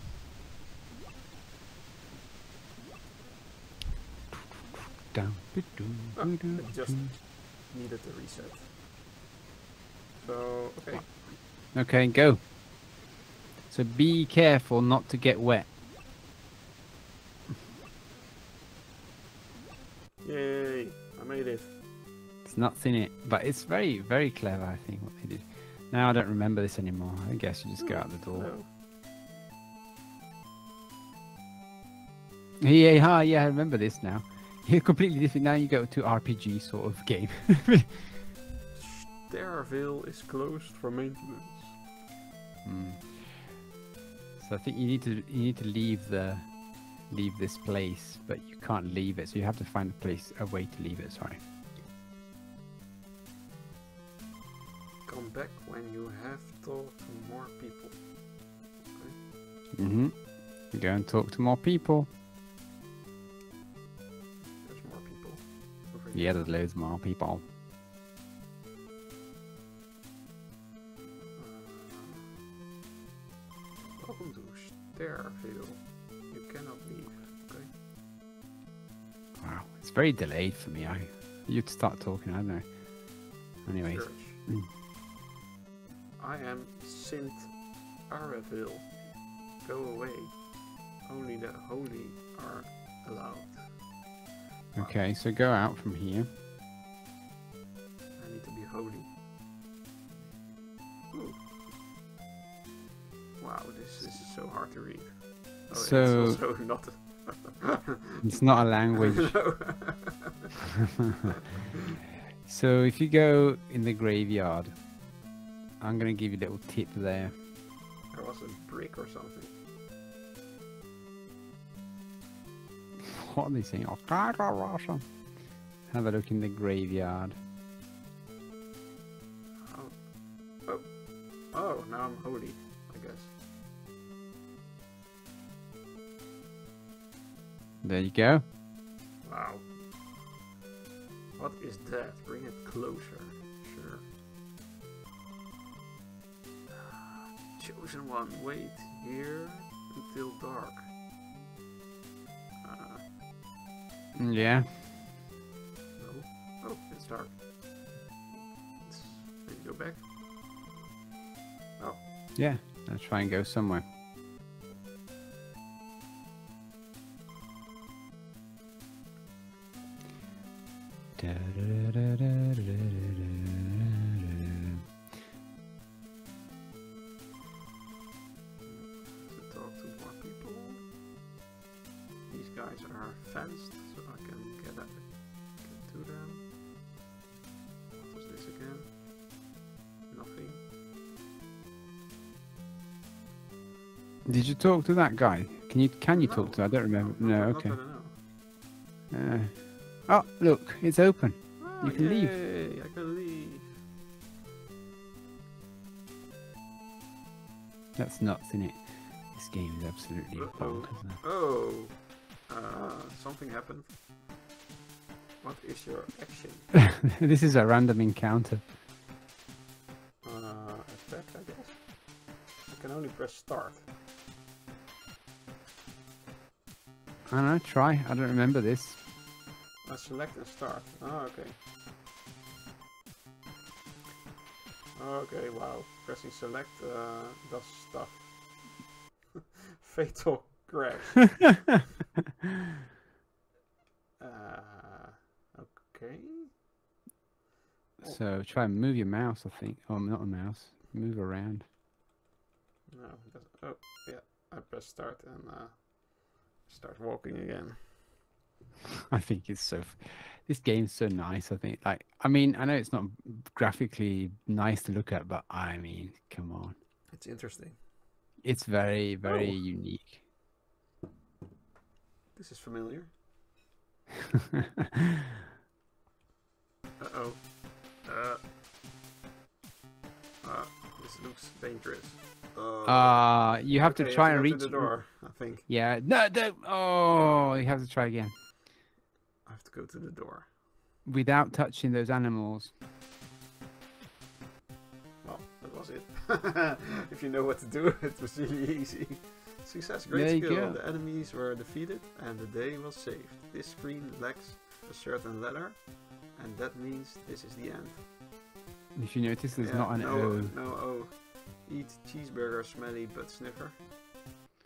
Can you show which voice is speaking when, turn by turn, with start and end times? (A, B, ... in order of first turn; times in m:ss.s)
0:05.1-0:07.1 A
0:06.2-0:08.7 B
0:10.2-0:11.3 B
0:10.9-0:12.5 A
0:13.7-0:15.7 A
0:20.2-0:21.7 B
0:22.4-0:28.6 A
0:27.8-0:28.7 B
0:32.6-0:38.2 A
0:38.7-0:41.8 B
0:42.6-0:43.6 A
0:44.4-0:51.4 A
0:55.0-0:58.1 B
0:58.8-0:59.2 B
0:59.7-1:02.1 A
1:04.5-1:06.5 B
1:06.1-1:07.4 A
1:11.4-1:12.3 B
1:14.0-1:17.7 B
1:19.4-1:23.0 A
1:23.6-1:24.7 A
1:23.8-1:24.4 B
1:26.2-1:33.8 B
1:34.7-1:35.0 B
1:34.7-1:36.3 A
1:38.2-1:39.1 B
1:41.1-1:41.4 B
1:43.4-1:48.2 B
1:45.7-1:46.5 A
1:48.2-1:49.7 A
1:49.0-1:50.3 B
1:52.4-1:54.9 A
1:55.8-1:57.3 A
1:58.1-1:59.5 B
2:03.1-2:05.3 A
2:05.8-2:07.4 A
2:09.6-2:13.3 B
2:17.8-2:18.4 A
2:19.2-2:19.7 B
2:21.4-2:24.0 B
2:26.7-2:30.9 B
2:32.6-2:33.0 B
2:34.2-2:35.0 A
2:36.0-2:37.4 B
2:38.8-2:40.0 B
2:41.8-2:42.0 B
2:42.4-2:43.8 A
2:51.2-2:53.5 A
2:54.3-2:54.8 A
2:58.6-3:00.8 B
3:02.3-3:06.4 B
3:07.9-3:08.9 B
3:10.1-3:10.6 B
3:14.2-3:17.8 A
3:16.1-3:18.2 B
3:19.1-3:22.4 A
3:21.6-3:23.7 B
3:28.0-3:31.2 A
3:30.3-3:33.9 B
3:35.4-3:36.7 B
3:37.1-3:38.6 A
3:40.2-3:43.9 B
3:47.3-3:49.0 A
3:49.8-3:51.6 B
3:54.9-3:58.7 B
3:59.8-4:01.4 B
4:04.2-4:06.5 B
4:08.0-4:11.6 A
4:12.9-4:18.1 B
4:19.1-4:26.7 A
4:27.1-4:27.8 B
4:28.4-4:30.2 A
4:29.2-4:29.6 B
4:32.3-4:33.1 B
4:37.0-4:38.4 B
4:40.4-4:45.7 B
4:42.8-4:48.3 A
4:49.4-4:50.5 B
4:51.0-4:52.7 A
4:55.2-5:08.0 B
5:00.1-5:00.8 A
5:08.9-5:10.6 A
5:09.6-5:13.8 B